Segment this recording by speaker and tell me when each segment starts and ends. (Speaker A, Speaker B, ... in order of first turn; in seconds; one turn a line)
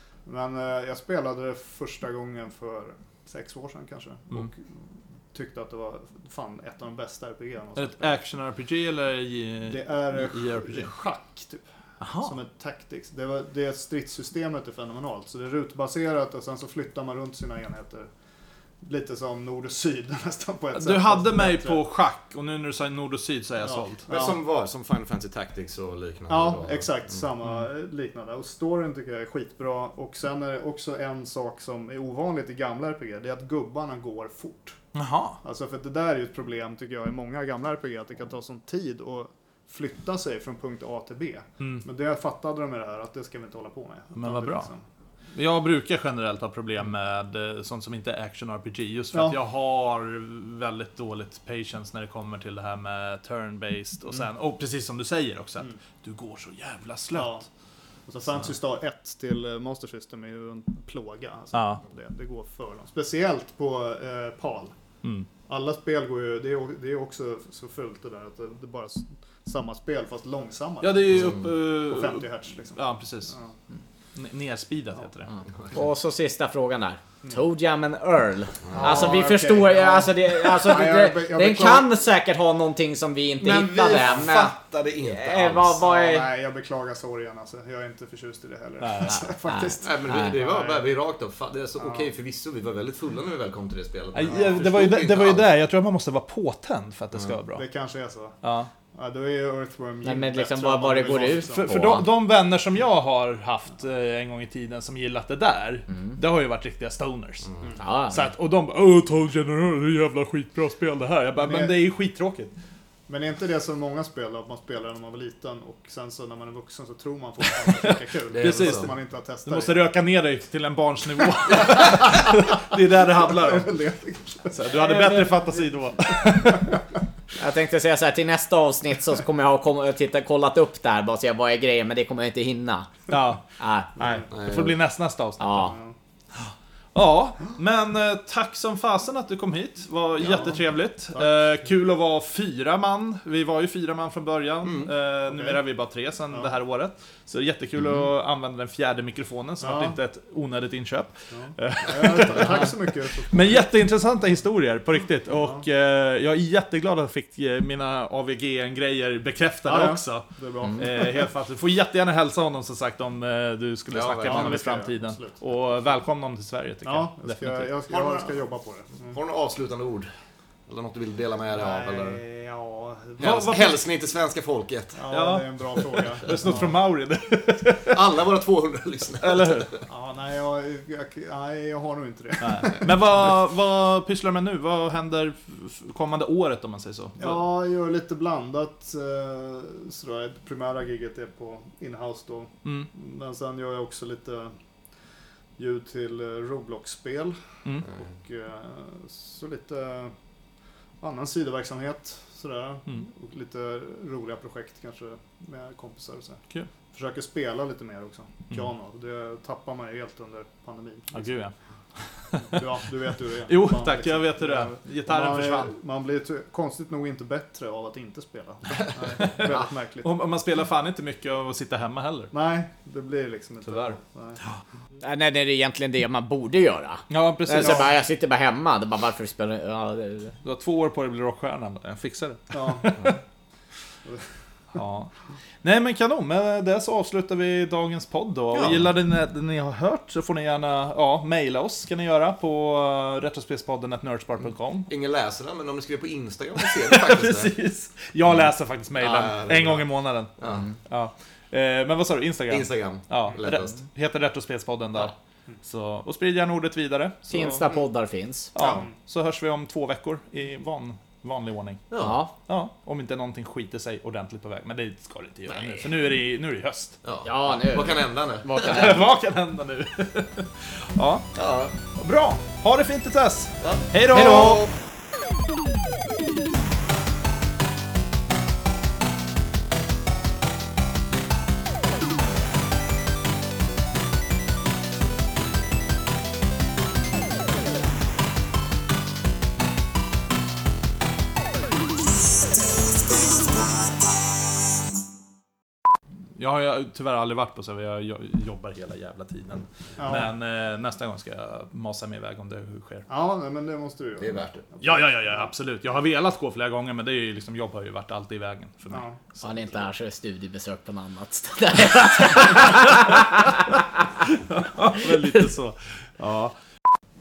Speaker A: 0.2-4.6
Speaker A: 5.3-8.2
Speaker B: 7.8-10.9
Speaker A: 9.7-11.7
Speaker B: 12.0-12.3
Speaker A: 12.2-18.1
Speaker A: 18.8-21.8
Speaker B: 20.7-24.0
Speaker A: 23.6-24.4
Speaker C: 24.1-27.1
Speaker A: 26.3-34.8
Speaker B: 34.9-35.4
Speaker A: 35.4-44.8
Speaker B: 44.1-44.7
Speaker B: 45.3-57.4
Speaker A: 49.1-49.4
Speaker A: 57.1-57.5
Speaker A: 58.1-64.7
Speaker B: 61.5-61.8
Speaker B: 65.0-65.3
Speaker A: 65.5-73.5
Speaker B: 70.8-73.3
Speaker C: 71.1-71.5
Speaker B: 74.2-75.3
Speaker D: 75.7-86.3
Speaker C: 78.6-79.1
Speaker A: 78.7-81.9
Speaker C: 83.4-85.8
Speaker A: 85.8-90.9
Speaker B: 88.8-89.3
Speaker D: 89.5-90.3
Speaker C: 89.8-95.5
Speaker A: 91.8-92.1
Speaker B: 94.1-97.6
Speaker A: 97.5-98.3
Speaker B: 98.4-98.7
Speaker A: 98.9-101.8
Speaker D: 100.0-102.1
Speaker B: 101.5-107.5
Speaker C: 107.4-107.7
Speaker D: 107.8-108.3
Speaker B: 108.1-112.5
Speaker A: 111.4-111.8
Speaker A: 113.1-119.8
Speaker B: 117.8-123.7
Speaker C: 118.3-118.9
Speaker A: 121.5-122.3
Speaker A: 123.0-126.5
Speaker B: 124.5-126.7
Speaker D: 127.4-132.9
Speaker B: 133.1-133.4
Speaker D: 133.6-134.0
Speaker A: 134.0-134.3
Speaker B: 134.0-135.7
Speaker C: 134.3-134.8
Speaker D: 135.4-135.8
Speaker B: 136.9-167.7
Speaker A: 140.3-140.5
Speaker C: 144.6-144.9
Speaker A: 145.3-145.6
Speaker A: 149.6-149.9
Speaker A: 151.3-153.7
Speaker A: 159.7-161.3
Speaker C: 163.9-164.6
Speaker A: 164.2-165.4
Speaker A: 166.8-169.2
Speaker C: 167.9-168.4
Speaker C: 169.1-170.1
Speaker C: 170.7-172.2
Speaker A: 171.5-173.6
Speaker B: 173.2-173.8
Speaker C: 173.2-175.0
Speaker A: 174.9-176.8
Speaker B: 175.1-178.0
Speaker C: 177.9-179.8
Speaker B: 179.2-179.8
Speaker A: 179.9-183.0
Speaker B: 182.4-187.4
Speaker A: 187.2-194.5
Speaker B: 192.6-192.9
Speaker A: 195.6-200.1
Speaker A: 201.0-211.3
Speaker B: 211.1-211.5
Speaker B: 212.2-212.6
Speaker A: 212.3-220.1
Speaker B: 213.5-215.7
Speaker B: 219.2-222.3
Speaker A: 222.3-224.4
Speaker B: 223.6-224.0
Speaker D: 225.0-230.3
Speaker B: 227.1-227.9
Speaker A: 227.6-227.9
Speaker B: 230.4-233.2
Speaker A: 232.5-232.9
Speaker B: 234.7-235.1
Speaker B: 235.6-244.9
Speaker C: 238.5-238.9
Speaker C: 244.9-247.5
Speaker B: 246.6-250.3
Speaker C: 249.0-250.7
Speaker B: 250.9-257.6
Speaker C: 252.5-253.8
Speaker D: 257.3-258.5
Speaker B: 258.5-261.9
Speaker A: 258.6-258.9
Speaker C: 261.9-262.2
Speaker D: 262.0-262.3
Speaker B: 262.5-267.0
Speaker C: 267.0-269.0
Speaker D: 267.2-269.0
Speaker B: 268.6-271.3
Speaker C: 271.3-271.8
Speaker B: 271.9-274.6
Speaker C: 273.6-274.7
Speaker B: 296.4-303.1
Speaker A: 300.0-300.3
Speaker A: 303.1-305.4
Speaker C: 304.2-304.6
Speaker B: 304.8-309.5
Speaker A: 308.9-309.2
Speaker D: 309.4-313.8
Speaker B: 314.5-316.5